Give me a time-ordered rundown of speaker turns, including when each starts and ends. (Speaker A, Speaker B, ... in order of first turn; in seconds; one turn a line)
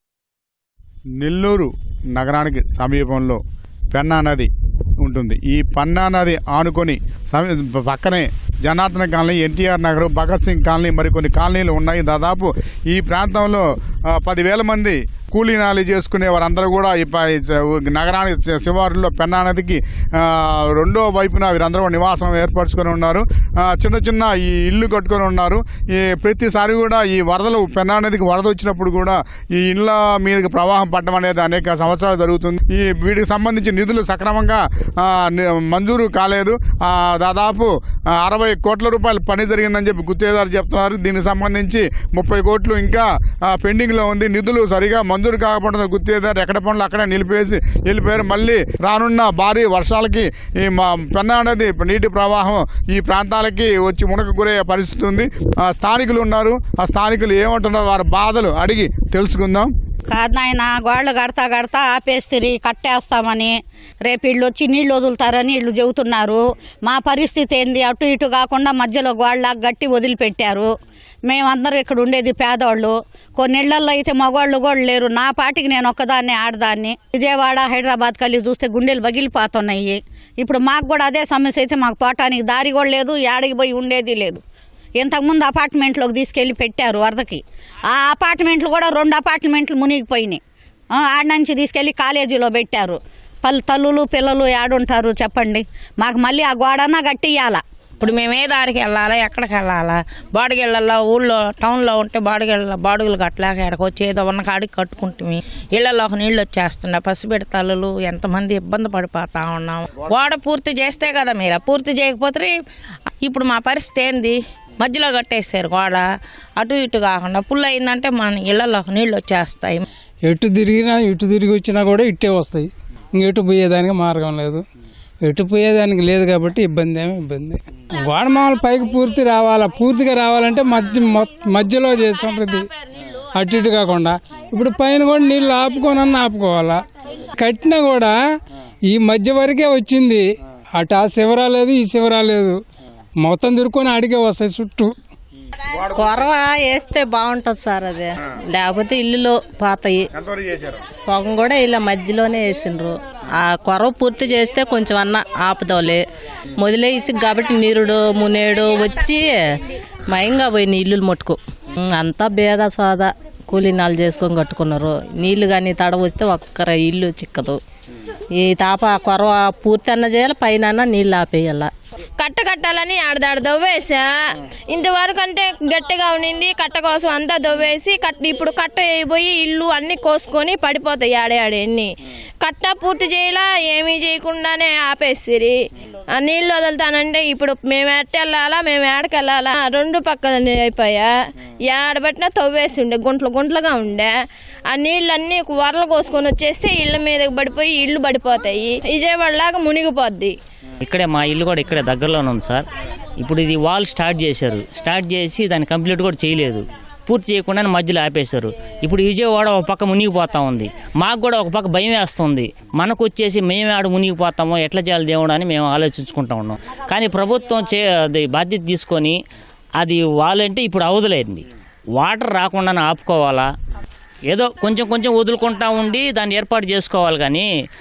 Speaker A: 1.2-3.4
Speaker A: 3.9-4.5
Speaker A: 5.0-59.7
Speaker B: 60.1-70.7
Speaker B: 71.3-84.4
Speaker B: 85.0-90.4
Speaker B: 90.9-97.6
Speaker C: 98.0-112.5
Speaker C: 113.3-114.3
Speaker C: 114.8-116.0
Speaker C: 116.6-119.6
Speaker D: 120.2-124.6
Speaker D: 125.2-132.7
Speaker D: 133.4-136.8
Speaker D: 137.4-138.2
Speaker D: 138.9-142.6
Speaker D: 143.2-144.9
Speaker E: 145.9-150.0
Speaker A: 150.2-150.8
Speaker E: 151.0-156.0
Speaker E: 156.6-159.3
Speaker E: 160.1-161.4
Speaker E: 161.9-167.6
Speaker E: 168.4-171.7
Speaker F: 172.2-174.1
Speaker F: 174.7-185.6
Speaker F: 186.1-191.1
Speaker F: 191.7-194.1
Speaker F: 194.7-200.3
Speaker G: 200.8-202.7
Speaker G: 203.2-219.2
Speaker G: 219.8-221.4
Speaker G: 222.0-223.5
Speaker G: 224.3-227.5